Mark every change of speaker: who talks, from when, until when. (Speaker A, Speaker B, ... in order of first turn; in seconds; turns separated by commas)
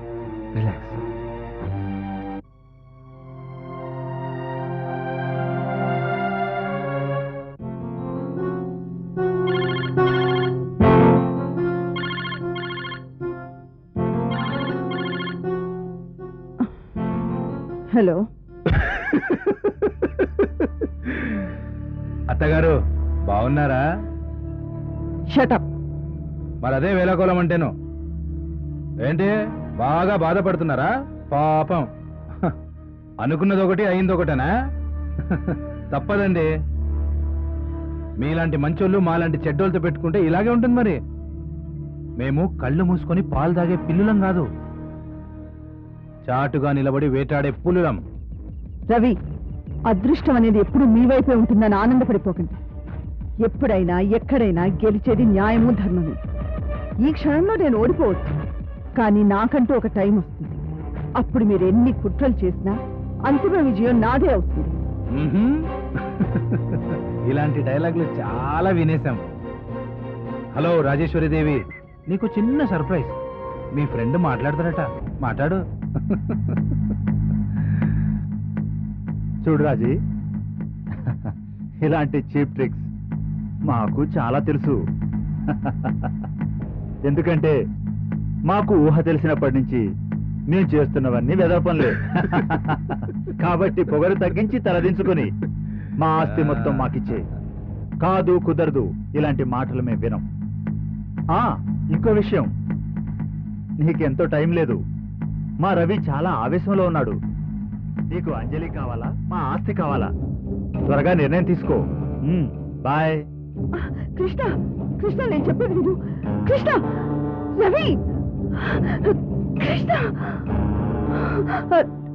Speaker A: 0.5-1.0, Speaker B: 17.9-18.2, Speaker A: 22.3-22.7, Speaker A: 23.3-23.8, Speaker B: 25.3-25.6, Speaker A: 26.6-27.7, Speaker A: 29.1-31.9, Speaker A: 33.2-34.5, Speaker A: 35.3-36.5, Speaker A: 38.2-41.0, Speaker A: 42.2-44.5, Speaker A: 46.3-48.0, Speaker B: 48.9-49.1, Speaker B: 49.9-52.6, Speaker B: 53.4-56.2, Speaker B: 57.0-58.3, Speaker B: 59.0-60.6, Speaker B: 61.2-64.8, Speaker A: 65.1-65.7, Speaker A: 66.2-69.2, Speaker A: 70.5-73.2, Speaker A: 73.7-76.5, Speaker C: 79.4-80.0, Speaker C: 81.8-82.9, Speaker C: 83.7-84.8, Speaker C: 85.5-86.1, Speaker C: 87.0-87.5, Speaker C: 88.5-89.8, Speaker C: 90.5-95.3, Speaker C: 96.0-97.2, Speaker C: 98.0-100.2, Speaker C: 101.3-102.5, Speaker C: 103.8-104.8, Speaker C: 105.6-107.2, Speaker C: 108.1-110.1, Speaker C: 110.9-113.2, Speaker B: 113.8-116.8, Speaker B: 117.5-118.0, Speaker B: 118.6-120.4, Speaker B: 121.4-121.9